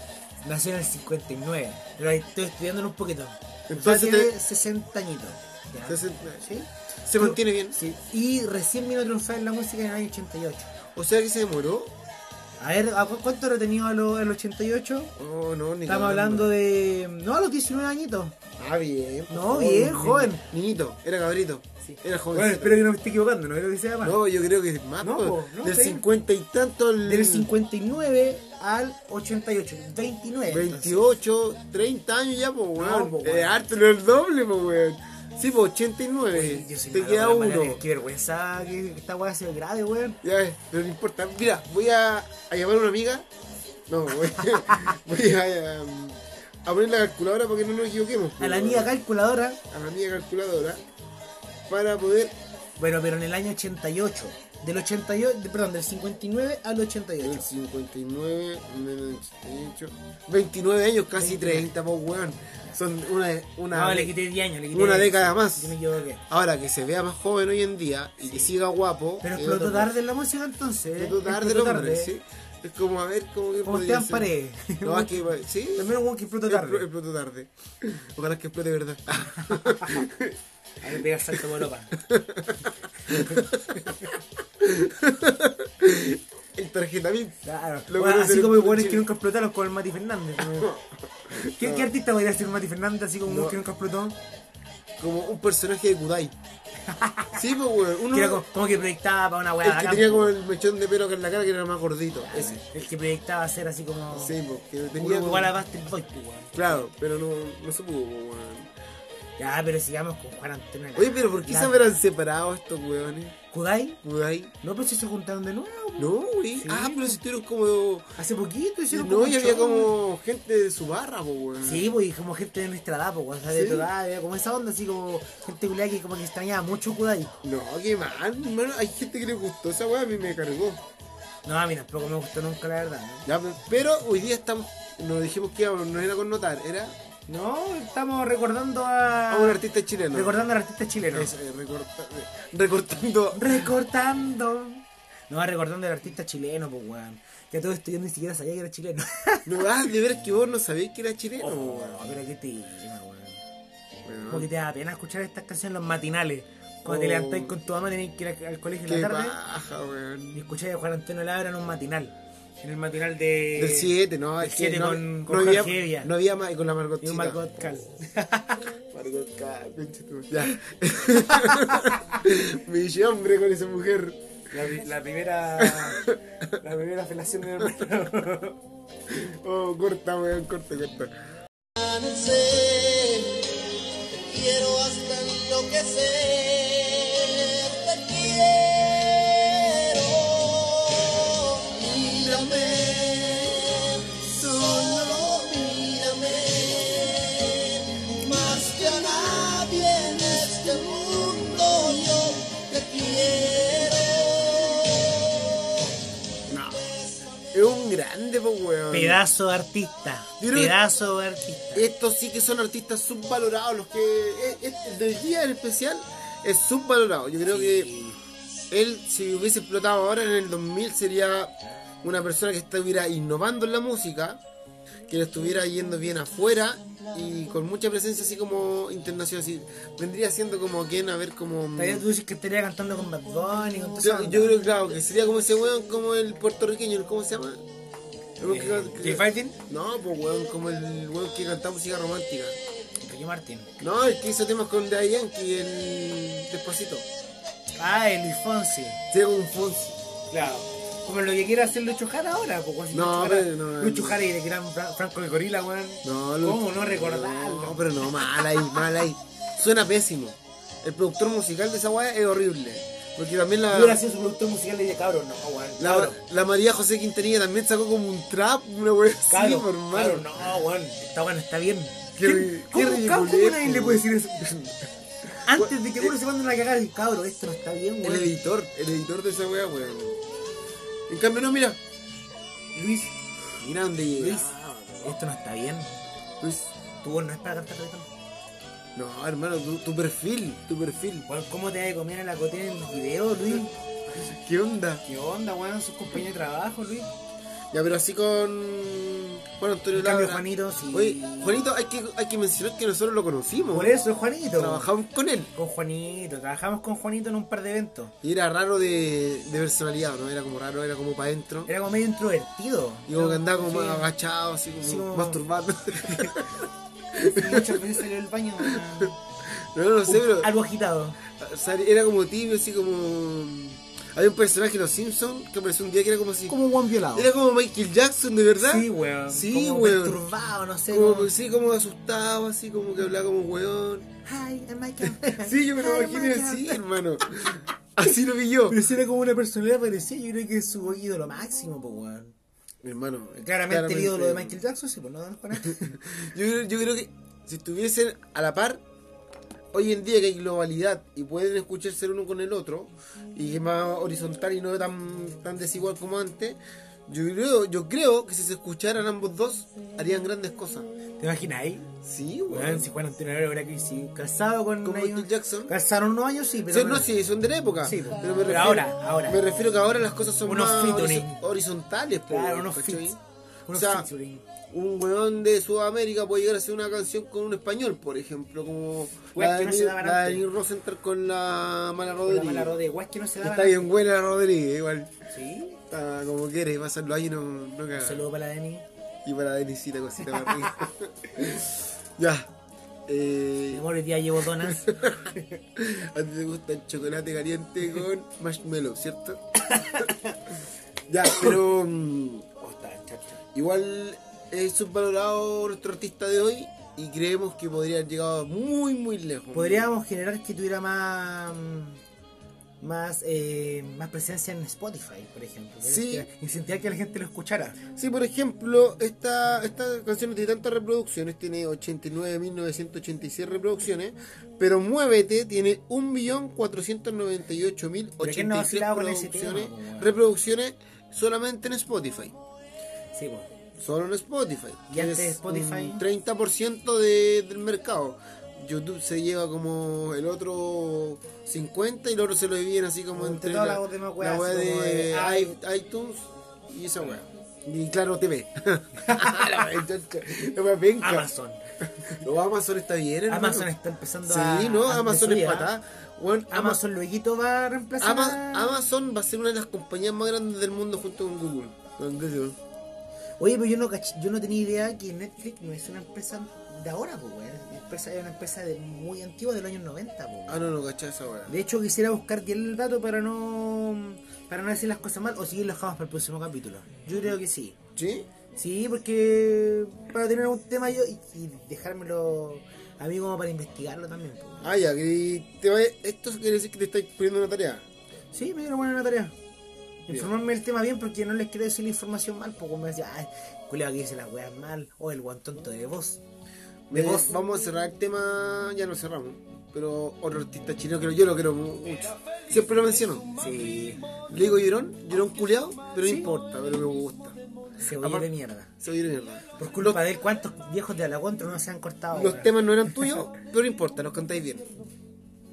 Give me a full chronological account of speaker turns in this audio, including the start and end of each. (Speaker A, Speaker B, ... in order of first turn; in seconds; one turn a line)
Speaker A: 0.4-10.7
Speaker B: 3.7-4.3
Speaker B: 5.9-7.8
Speaker B: 10.9-11.9
Speaker A: 12.6-15.1
Speaker B: 15.2-16.5
Speaker A: 15.9-18.4
Speaker B: 18.6-22.8
Speaker A: 19.3-20.4
Speaker A: 21.8-24.2
Speaker B: 24.0-27.5
Speaker A: 25.0-26.0
Speaker A: 27.0-31.0
Speaker B: 30.5-37.8
Speaker A: 32.8-33.6
Speaker A: 36.3-40.2
Speaker B: 40.2-43.3
Speaker B: 43.9-49.0
Speaker A: 48.4-49.6
Speaker B: 49.7-50.8
Speaker B: 51.7-52.4
Speaker A: 52.8-57.5
Speaker B: 57.2-64.2
Speaker A: 61.2-61.7
Speaker A: 63.7-66.2
Speaker B: 64.7-65.8
Speaker B: 66.3-69.9
Speaker A: 69.2-72.1
Speaker B: 71.0-74.3
Speaker A: 73.7-76.9
Speaker B: 74.8-75.9
Speaker B: 76.5-80.4
Speaker A: 79.2-80.1
Speaker A: 80.8-81.9
Speaker B: 82.0-84.0
Speaker A: 83.1-83.5
Speaker B: 84.6-89.1
Speaker A: 87.4-90.7
Speaker B: 90.4-91.9
Speaker A: 91.6-94.2
Speaker B: 93.3-93.6
Speaker B: 95.0-96.3
Speaker A: 96.9-97.4
Speaker B: 97.3-98.4
Speaker A: 98.1-100.3
Speaker B: 99.6-102.6
Speaker A: 102.2-104.4
Speaker B: 104.1-105.6
Speaker A: 104.9-106.8
Speaker B: 106.5-108.7
Speaker A: 109.4-112.0
Speaker B: 111.0-113.4
Speaker A: 113.5-114.0
Speaker B: 114.0-114.5
Speaker A: 114.6-117.2
Speaker B: 116.0-118.1
Speaker A: 118.2-119.9
Speaker B: 118.9-121.9
Speaker A: 121.6-127.3
Speaker B: 123.5-123.9
Speaker B: 127.4-130.8
Speaker A: 131.4-133.3
Speaker B: 133.3-136.9
Speaker A: 137.3-139.6
Speaker B: 139.3-140.4
Speaker A: 140.1-141.3
Speaker B: 141.1-143.7
Speaker A: 143.3-149.8
Speaker B: 149.4-152.1
Speaker A: 151.4-153.4
Speaker B: 154.0-154.5
Speaker A: 154.3-159.4
Speaker B: 156.8-157.6
Speaker B: 158.9-160.4
Speaker A: 160.3-166.1
Speaker B: 163.6-167.4
Speaker A: 167.0-168.7
Speaker B: 168.9-174.2
Speaker A: 171.1-172.2
Speaker A: 174.5-178.6
Speaker B: 175.6-176.2
Speaker B: 179.1-181.1
Speaker C: 181.8-183.4
Speaker C: 184.3-194.1
Speaker B: 191.9-195.6
Speaker C: 195.3-204.3
Speaker B: 198.2-199.9
Speaker B: 200.5-203.2
Speaker B: 206.5-206.8
Speaker B: 207.5-209.2
Speaker A: 208.9-211.9
Speaker B: 210.4-210.8
Speaker B: 211.7-217.9
Speaker A: 217.5-218.2
Speaker B: 218.7-224.4
Speaker B: 225.1-232.1
Speaker A: 231.8-234.6
Speaker B: 234.0-237.6
Speaker B: 238.4-242.6
Speaker A: 238.4-239.6
Speaker A: 243.0-243.7
Speaker B: 243.8-247.1
Speaker A: 247.8-249.0
Speaker B: 249.1-250.0
Speaker A: 250.3-258.8
Speaker B: 252.9-254.2
Speaker B: 256.0-264.0
Speaker A: 263.7-266.2
Speaker B: 265.8-270.5
Speaker A: 269.3-274.7
Speaker B: 272.2-274.1
Speaker A: 275.5-278.3
Speaker B: 275.5-276.1
Speaker B: 278.0-280.2
Speaker B: 281.1-281.8
Speaker A: 282.7-283.2
Speaker B: 283.6-285.1
Speaker A: 284.2-285.9
Speaker B: 286.4-286.7
Speaker A: 287.0-288.1
Speaker B: 288.9-291.3
Speaker A: 291.3-293.7
Speaker B: 294.1-295.0
Speaker A: 295.1-297.1
Speaker B: 297.7-304.0
Speaker A: 299.9-301.6
Speaker A: 303.7-304.9
Speaker B: 304.6-305.5
Speaker A: 305.6-308.1
Speaker B: 308.2-311.7
Speaker A: 311.7-314.1
Speaker B: 313.1-316.6
Speaker A: 314.8-315.4
Speaker A: 316.0-316.4
Speaker B: 317.2-317.9
Speaker A: 317.2-319.2
Speaker B: 318.6-319.0
Speaker B: 319.5-320.5
Speaker A: 320.1-321.2
Speaker B: 321.3-326.6
Speaker A: 326.5-327.3
Speaker B: 327.1-330.2
Speaker A: 328.6-331.3
Speaker B: 330.9-334.1
Speaker A: 334.2-337.5
Speaker B: 335.4-338.9
Speaker A: 338.7-342.3
Speaker B: 342.8-344.6
Speaker A: 343.4-346.0
Speaker B: 345.6-348.8
Speaker B: 349.7-360.9
Speaker A: 361.2-361.9
Speaker B: 362.0-362.9
Speaker A: 362.5-367.1
Speaker B: 364.8-365.7
Speaker B: 366.7-373.2
Speaker A: 367.8-369.4
Speaker A: 370.4-371.4
Speaker A: 372.3-374.4
Speaker B: 373.7-374.1
Speaker B: 374.7-382.8
Speaker A: 379.4-380.4
Speaker A: 382.2-383.9
Speaker B: 383.4-385.1
Speaker A: 385.3-385.8
Speaker B: 385.9-388.2
Speaker A: 387.9-388.9
Speaker B: 389.2-392.5
Speaker A: 390.3-390.9
Speaker B: 393.1-393.9
Speaker A: 393.7-395.6
Speaker B: 394.6-399.4
Speaker A: 399.6-400.4
Speaker B: 401.1-402.5
Speaker A: 402.6-403.4
Speaker B: 403.5-409.9
Speaker A: 409.5-412.0
Speaker A: 412.8-417.8
Speaker B: 415.8-416.3
Speaker B: 417.9-432.4
Speaker A: 428.2-430.1
Speaker A: 433.1-433.5
Speaker B: 433.8-451.3
Speaker A: 434.9-436.0
Speaker A: 443.1-445.6
Speaker A: 449.0-449.8
Speaker A: 451.0-452.2
Speaker B: 452.2-453.7
Speaker A: 453.3-455.7
Speaker B: 454.2-456.8
Speaker A: 456.5-458.8
Speaker B: 458.0-462.6
Speaker A: 463.4-470.7
Speaker B: 470.5-471.6
Speaker A: 471.5-477.8
Speaker B: 478.0-478.3
Speaker A: 478.6-484.7
Speaker B: 484.6-487.9
Speaker A: 488.3-489.3
Speaker A: 490.1-496.2
Speaker B: 496.9-503.3
Speaker A: 496.9-497.3
Speaker C: 501.9-505.6
Speaker A: 503.4-504.0
Speaker B: 504.3-507.4
Speaker A: 506.0-506.4
Speaker A: 507.8-508.7
Speaker B: 508.0-508.3
Speaker B: 508.8-510.0
Speaker A: 509.6-512.7
Speaker B: 512.1-514.7